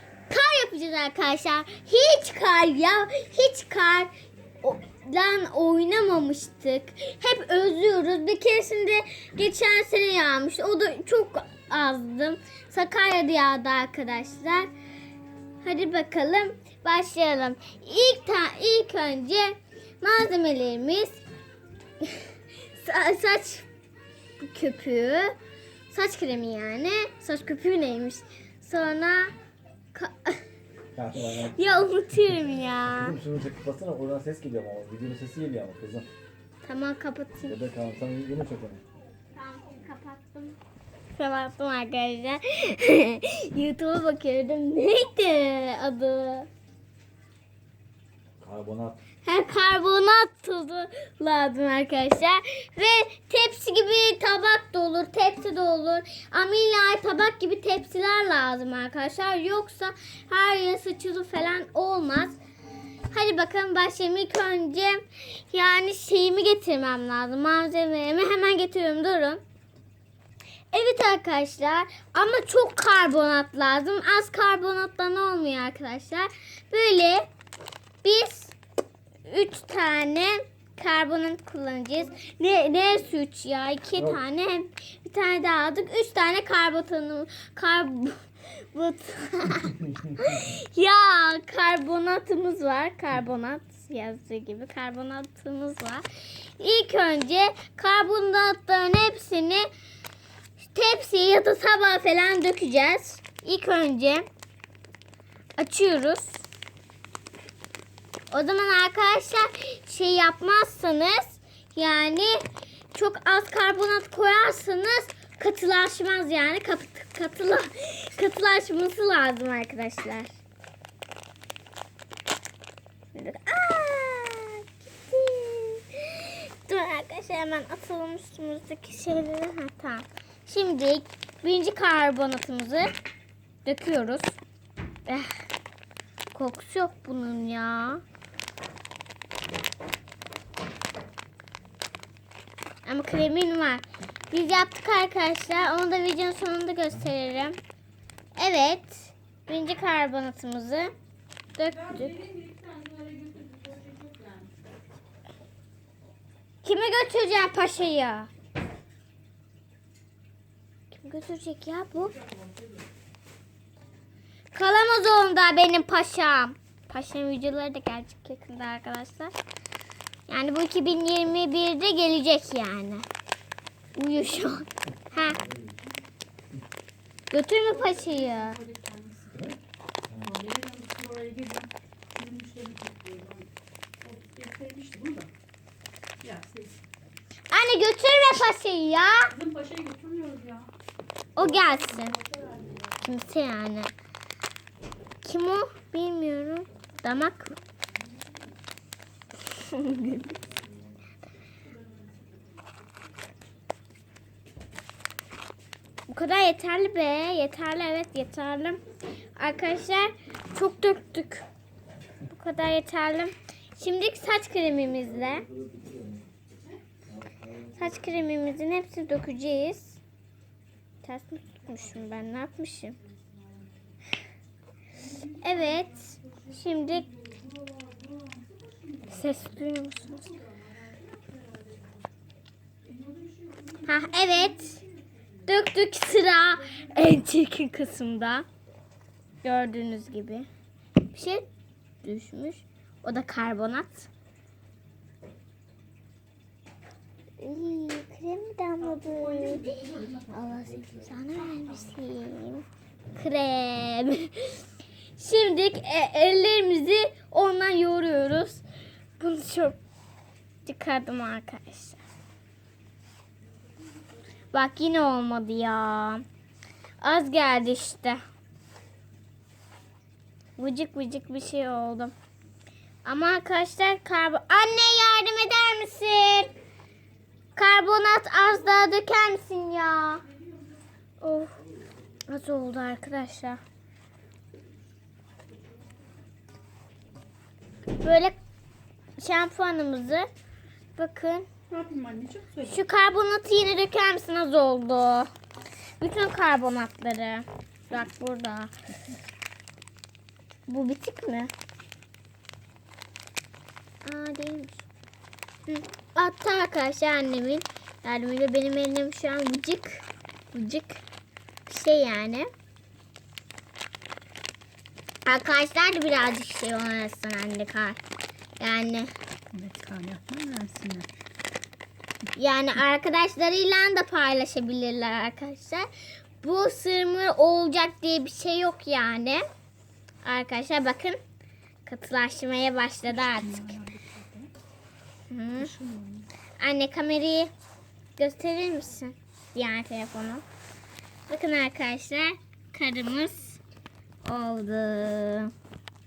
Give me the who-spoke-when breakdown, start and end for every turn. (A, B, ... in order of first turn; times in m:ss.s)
0:00.3-0:14.7 A
0:15.6-0:21.2 A
0:22.0-0:23.7 A
0:24.4-0:25.4 A
0:25.9-0:29.3 A
0:29.9-0:30.4 A
0:30.9-0:31.6 B
0:31.2-0:33.2 A
0:32.9-0:36.1 B
0:36.6-0:37.6 A
0:37.5-0:38.8 B
0:39.4-0:40.6 A
0:41.1-0:46.5 A
0:48.4-0:49.0 B
0:49.2-1:02.4 A
1:03.1-1:09.4 A
1:10.7-1:17.3 A
1:18.0-1:18.5 A
1:19.2-1:39.7 A
1:40.6-1:44.3 A
1:45.6-1:46.4 A
1:48.3-2:00.4 A
2:03.1-2:12.9 A
2:13.6-2:14.4 A
2:15.1-2:15.4 A
2:16.3-2:18.0 A
2:22.8-2:27.6 A
2:28.4-2:30.9 A
2:31.6-2:32.1 A
2:31.7-2:34.5 C
2:36.6-2:38.3 A
2:40.9-2:42.2 A
2:42.2-2:42.8 C
2:44.5-2:49.3 A
2:50.3-2:53.1 A
2:54.0-2:55.4 A
2:57.3-2:58.6 A
2:57.8-2:59.6 C
3:00.1-3:03.5 C
3:04.0-3:05.3 C
3:06.2-3:06.8 C
3:07.5-3:09.3 A
3:09.3-3:10.7 C
3:11.4-3:12.2 A
3:11.4-3:12.9 C
3:13.0-3:13.9 A
3:15.2-3:17.6 A
3:19.5-3:20.4 A
3:26.1-3:28.8 A
3:29.4-3:31.5 A
3:32.3-3:35.5 A
3:35.7-3:36.2 B
3:37.6-3:40.0 A
3:41.0-3:43.0 A
3:43.2-3:43.6 C
3:45.0-3:52.1 C
3:45.4-3:47.1 A
3:49.1-3:50.4 A
3:52.8-3:55.3 C
3:53.9-3:54.8 A
3:55.5-3:58.5 A
3:56.7-3:57.0 C
3:59.4-4:00.5 A
4:01.0-4:01.5 A
4:02.0-4:04.1 A
4:07.4-4:14.6 A
4:08.8-4:10.8 C
4:15.2-4:18.6 A
4:19.2-4:19.8 A
4:20.6-4:22.0 A
4:24.5-4:26.2 A
4:27.0-4:28.2 A
4:30.6-4:32.1 A
4:33.0-4:36.5 A
4:37.6-4:40.2 A
4:41.2-4:41.6 A
4:42.3-4:43.6 A
4:48.0-4:48.4 A
4:49.2-4:50.3 A
4:51.0-4:51.5 A
4:51.7-4:52.8 C
4:52.7-4:55.3 A
4:56.0-4:58.7 A
5:00.7-5:01.5 A
5:04.0-5:04.9 A
5:05.7-5:11.0 A
5:11.7-5:12.5 A
5:15.3-5:18.0 A
5:18.6-5:19.1 A
5:19.5-5:21.1 C
5:22.4-5:25.9 A
5:26.4-5:29.4 A
5:30.2-5:31.2 A
5:31.8-5:33.8 A
5:33.1-5:34.5 C
5:35.3-5:35.7 A
5:35.6-5:36.3 C
5:36.6-5:37.5 A
5:38.2-5:40.4 A
5:41.3-5:43.6 A
5:44.2-5:45.5 A